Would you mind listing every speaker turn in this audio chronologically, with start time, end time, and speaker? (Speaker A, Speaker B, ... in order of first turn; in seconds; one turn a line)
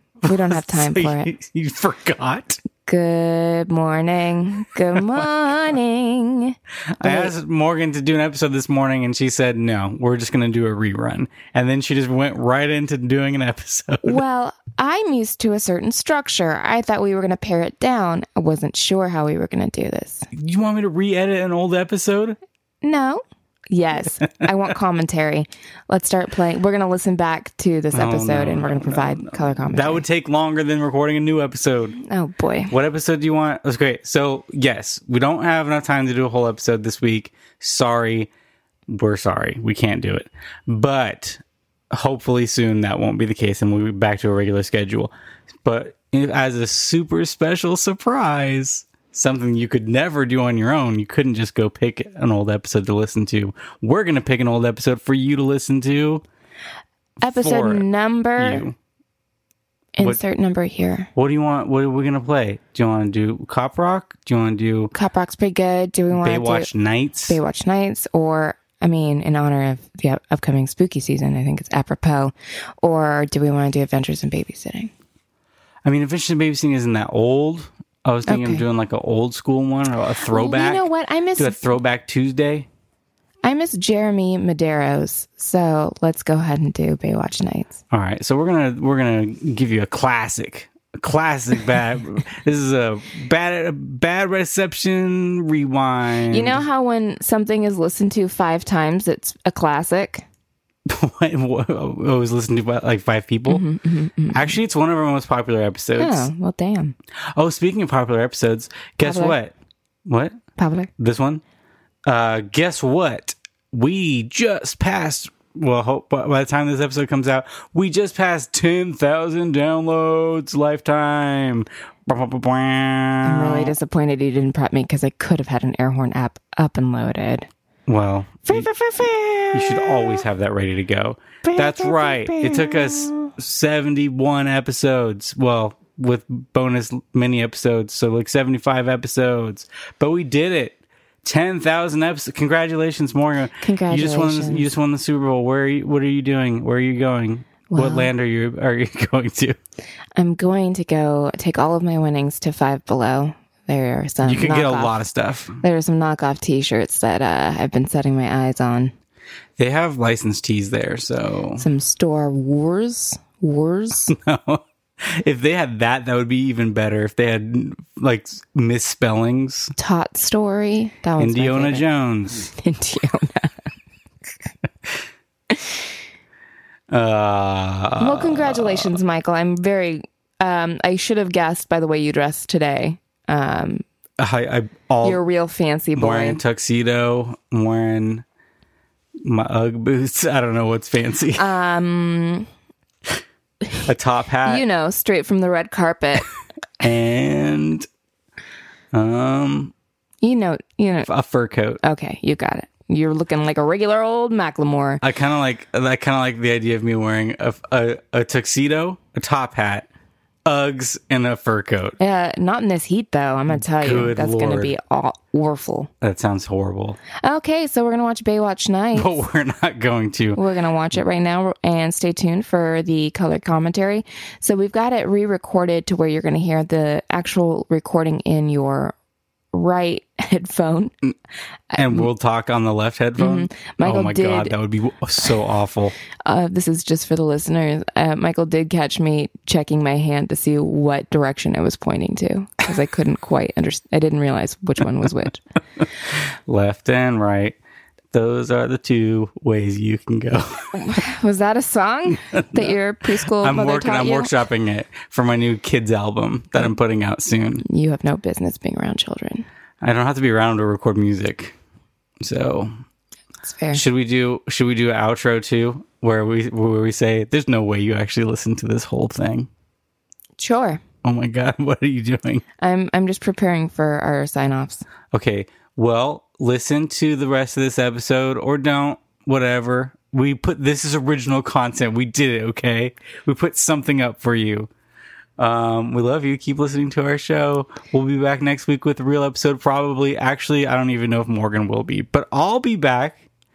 Speaker A: 0.2-1.3
Speaker B: 0.2-2.6
Speaker A: 2.8-7.3
Speaker B: 7.0-14.2
Speaker A: 14.0-20.3
Speaker B: 20.3-22.4
Speaker A: 22.8-30.1
Speaker B: 27.9-32.0
Speaker A: 32.0-32.8
Speaker B: 32.7-38.3
Speaker B: 38.9-45.1
Speaker B: 45.6-56.2
Speaker A: 57.2-58.7
Speaker B: 57.2-57.9
Speaker B: 58.4-58.7
Speaker A: 59.9-61.1
Speaker B: 61.1-64.9
Speaker A: 64.9-66.7
Speaker B: 66.1-67.4
Speaker A: 67.3-74.9
Speaker B: 75.8-82.7
Speaker A: 78.3-78.6
Speaker A: 80.2-81.7
Speaker A: 83.4-87.8
Speaker B: 87.9-96.6
Speaker A: 96.3-100.2
Speaker B: 100.9-103.7
Speaker A: 103.5-104.6
Speaker B: 104.3-106.3
Speaker A: 106.0-107.0
Speaker B: 107.3-109.5
Speaker A: 109.0-109.4
Speaker B: 110.0-110.4
Speaker A: 110.6-110.9
Speaker B: 111.0-111.4
Speaker B: 112.0-123.7
Speaker A: 123.2-127.5
Speaker B: 127.9-128.7
Speaker A: 128.4-130.2
Speaker B: 129.5-149.6
Speaker A: 131.4-133.3
Speaker A: 143.6-144.7
Speaker A: 147.7-148.1
Speaker A: 150.2-155.0
Speaker B: 154.2-155.6
Speaker A: 155.6-158.9
Speaker B: 159.6-161.7
Speaker A: 161.6-164.1
Speaker B: 164.1-169.7
Speaker A: 169.8-171.9
Speaker B: 171.2-172.5
Speaker A: 172.4-173.5
Speaker B: 176.9-179.0
Speaker A: 178.0-183.8
Speaker B: 184.2-185.2
Speaker A: 185.0-186.4
Speaker B: 185.9-188.2
Speaker B: 189.2-191.5
Speaker A: 191.4-192.5
Speaker B: 193.8-194.7
Speaker A: 194.4-196.3
Speaker B: 196.8-197.9
Speaker B: 198.9-199.7
Speaker A: 200.2-201.1
Speaker B: 201.1-201.8
Speaker A: 201.8-205.0
Speaker B: 205.0-209.9
Speaker B: 210.4-212.0
Speaker A: 212.0-215.9
Speaker B: 213.5-214.7
Speaker B: 216.0-217.0
Speaker A: 217.2-219.2
Speaker B: 218.9-220.4
Speaker A: 220.3-228.9
Speaker A: 229.5-230.9
Speaker A: 231.7-232.1
Speaker B: 231.7-236.0
Speaker A: 233.2-234.5
Speaker A: 236.2-245.4
Speaker B: 246.5-247.6
Speaker B: 248.1-250.6
Speaker A: 250.7-254.3
Speaker B: 253.3-257.6
Speaker A: 257.6-259.4
Speaker B: 259.8-261.5
Speaker B: 262.2-262.7
Speaker A: 263.4-263.8
Speaker B: 263.7-269.5
Speaker A: 270.4-270.8
Speaker B: 271.0-272.4
Speaker A: 272.6-274.8
Speaker B: 275.1-284.7
Speaker B: 285.4-293.2